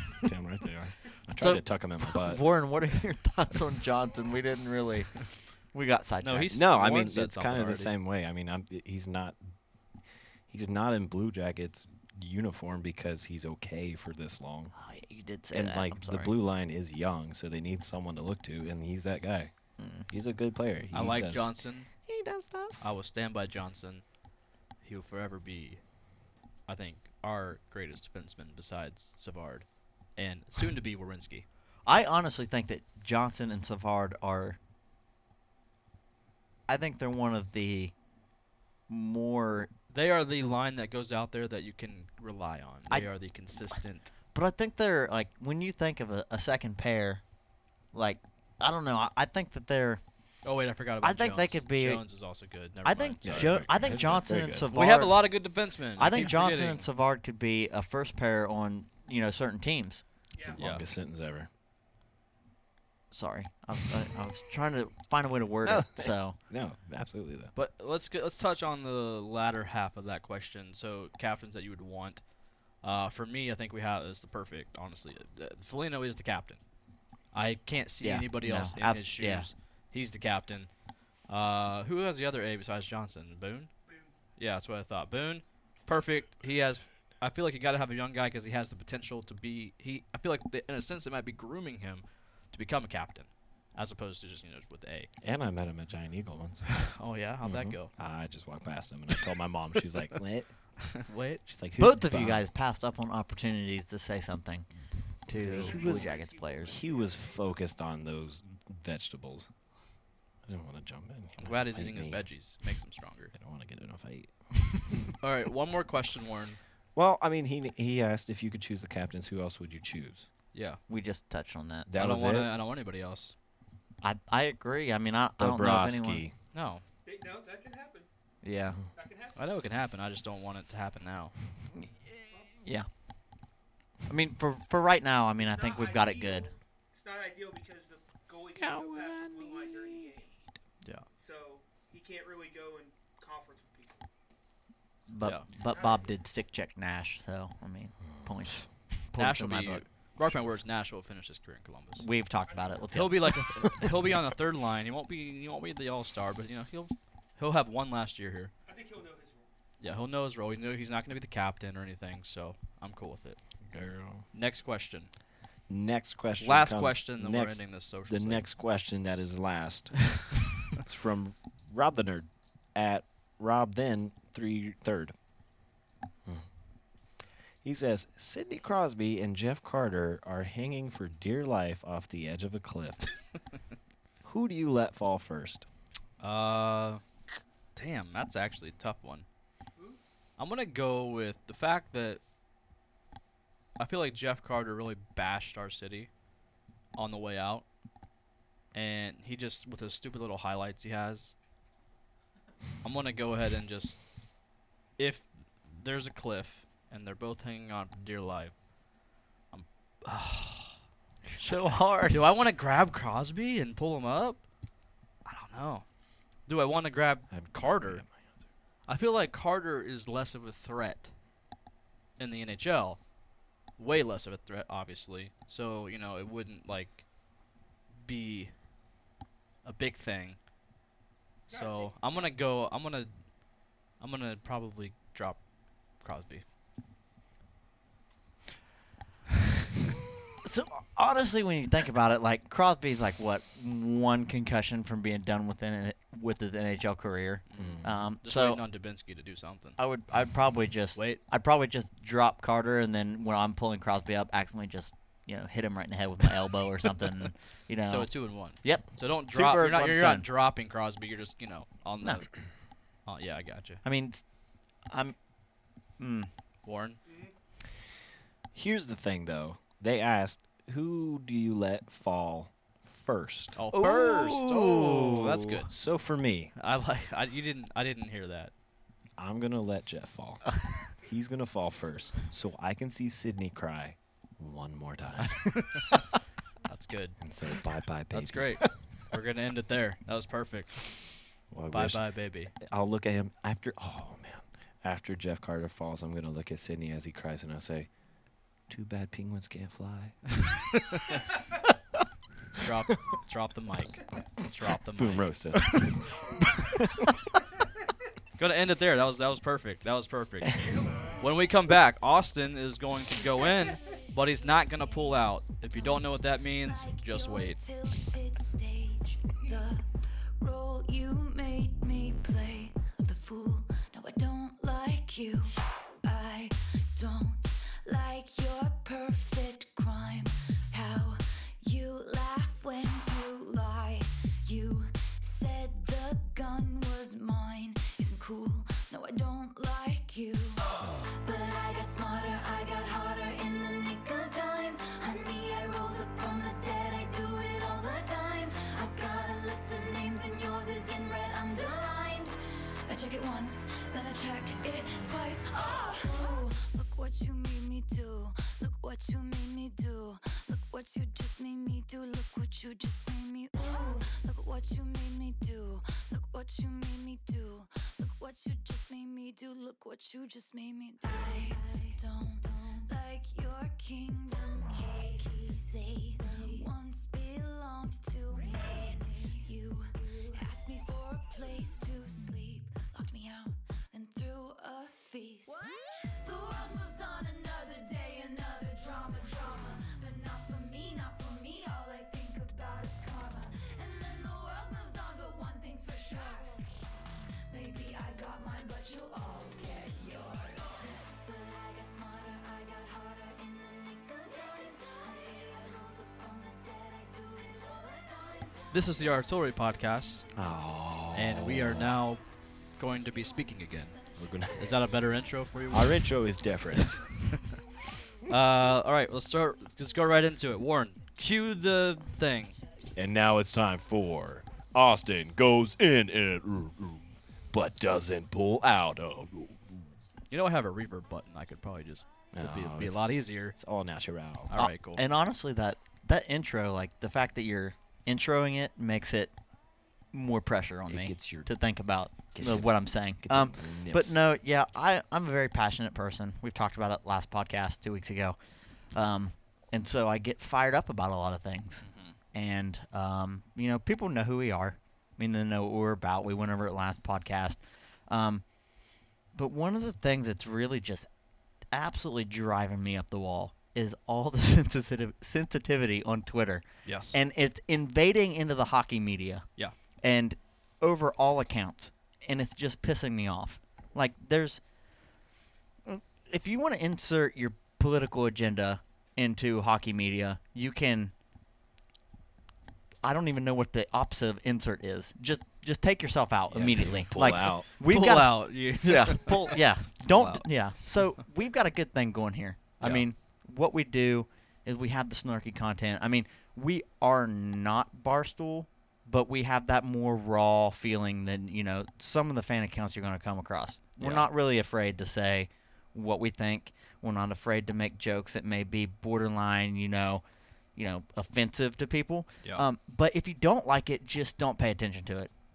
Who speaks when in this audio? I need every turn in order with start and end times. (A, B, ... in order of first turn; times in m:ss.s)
0:00.2-0:02.5 A
0:01.4-0:06.7 B
0:06.2-0:07.9 C
0:06.5-0:09.5 A
0:10.5-0:14.7 A
0:14.8-0:16.3 B
0:15.5-0:19.5 A
0:19.8-0:20.1 B
0:20.1-0:22.8 A
0:20.9-0:21.9 C
0:22.8-0:24.0 C
0:24.8-0:25.8 C
0:26.7-0:31.5 C
0:31.9-0:34.6 B
0:36.7-0:37.9 B
0:38.9-0:39.7 B
0:39.9-0:44.1 C
0:44.3-0:47.2 B
0:47.9-0:50.0 B
0:50.4-0:56.9 C
0:51.0-0:52.1 B
0:52.8-1:00.0 B
0:53.2-0:54.8 A
1:00.3-1:00.6 D
1:00.4-1:01.5 A
1:00.6-1:00.9 C
1:03.1-1:06.4 B
1:05.6-1:07.5 A
1:07.6-1:12.2 C
1:12.8-1:16.6 C
1:17.3-1:20.7 C
1:18.0-1:19.5 B
1:21.3-1:23.7 C
1:23.9-1:24.1 D
1:24.4-1:35.1 C
1:35.2-1:40.5 A
1:36.8-1:38.0 C
1:41.0-1:41.4 C
1:41.5-1:42.4 A
1:41.8-1:44.7 B
1:45.3-1:46.8 B
1:45.3-1:49.5 A
1:45.4-1:47.7 D
1:50.4-1:52.4 A
1:51.4-1:53.3 C
1:53.4-1:54.3 A
1:55.2-1:56.6 C
1:57.0-2:00.3 A
2:00.5-2:00.8 C
2:00.9-2:01.9 B
2:01.9-2:02.5 A
2:02.0-2:03.3 C
2:04.0-2:06.2 B
2:05.4-2:06.4 A
2:06.5-2:06.8 C
2:07.0-2:08.1 D
2:08.4-2:08.8 B
2:08.9-2:09.4 D
2:09.4-2:11.3 C
2:11.8-2:12.9 B
2:12.3-2:12.6 D
2:14.1-2:16.5 B
2:15.4-2:20.5 D
2:18.6-2:20.1 A
2:21.2-2:24.1 D
2:25.1-2:29.9 B
2:25.2-2:25.5 C
2:25.6-2:26.2 D
2:29.2-2:32.1 C
2:32.0-2:33.9 B
2:32.4-2:33.1 D
2:32.9-2:38.5 C
2:38.7-2:39.5 D
2:39.8-2:43.4 C
2:43.7-2:44.2 A
2:44.3-2:45.1 C
2:45.7-2:55.1 A
2:46.4-2:48.4 C
2:57.6-3:03.1 A
3:04.2-3:05.7 A
3:06.2-3:07.0 C
3:07.8-3:09.3 C
3:10.4-3:12.2 C
3:13.8-3:16.1 C
3:17.0-3:17.6 C
3:18.7-3:21.3 C
3:22.8-3:24.1 C
3:25.0-3:28.6 C
3:29.5-3:30.8 C
3:31.3-3:32.2 B
3:32.1-3:34.4 C
3:35.2-3:35.8 C
3:36.5-3:38.0 C
3:37.3-3:38.3 A
3:38.9-3:41.1 C
3:42.2-3:43.0 C
3:43.8-3:47.0 C
3:48.0-3:48.5 C
3:49.6-3:50.4 C
3:51.5-3:52.3 D
3:51.5-3:53.1 C
3:54.0-3:55.4 C
3:56.0-3:56.4 C
4:00.4-4:08.6 B
4:07.5-4:09.8 C
4:07.6-4:08.0 A
4:09.8-4:20.3 B
4:11.0-4:11.2 C
4:17.8-4:22.4 C
4:23.0-4:23.8 C
4:23.8-4:24.2 B
4:24.9-4:25.2 B
4:26.0-4:26.3 B
4:26.6-4:27.0 C
4:27.0-4:27.3 D
4:28.5-4:36.5 A
4:33.6-4:35.7 C
4:36.5-4:38.5 C
4:39.2-4:40.5 A
4:41.0-4:42.3 D
4:41.1-4:45.6 A
4:45.7-4:46.0 C
4:46.7-4:47.2 C
4:47.2-4:48.7 A
4:48.1-4:52.5 C
4:51.5-4:57.9 A
4:58.7-5:00.3 A
5:00.9-5:01.2 C
5:02.6-5:05.3 C
5:05.0-5:06.1 A
5:08.4-5:10.7 C
5:10.6-5:11.3 D
5:11.2-5:17.6 C
5:13.6-5:52.3 E
5:52.9-6:36.6 E
6:37.5-6:48.8 E
6:48.7-6:50.3 C
6:50.3-6:52.0 A
6:51.1-6:52.2 C
6:52.8-6:54.0 C
6:53.9-6:54.7 E
6:54.2-6:54.7 A
6:54.5-6:56.1 C
6:55.7-6:57.2 A
6:56.8-6:57.4 C
6:58.3-7:02.6 C
7:03.0-7:09.9 A
7:10.3-7:13.6 C
7:12.3-7:14.6 A
7:14.5-7:15.0 C
7:14.5-7:19.3 B
7:20.1-7:28.4 B
7:20.9-7:21.5 A
7:22.3-7:24.2 A
7:28.9-7:38.4 B
7:31.8-7:32.2 C
7:39.3-7:41.1 B
7:41.7-7:49.5 B
7:46.8-7:47.2 C
7:50.0-7:54.6 B
7:55.8-8:01.1 B
8:03.0-8:30.2 B
8:06.5-8:07.7 A
8:07.8-8:09.6 C
8:10.1-8:10.5 C
8:12.8-8:13.0 C
8:24.0-8:24.3 C
8:30.8-8:35.3 B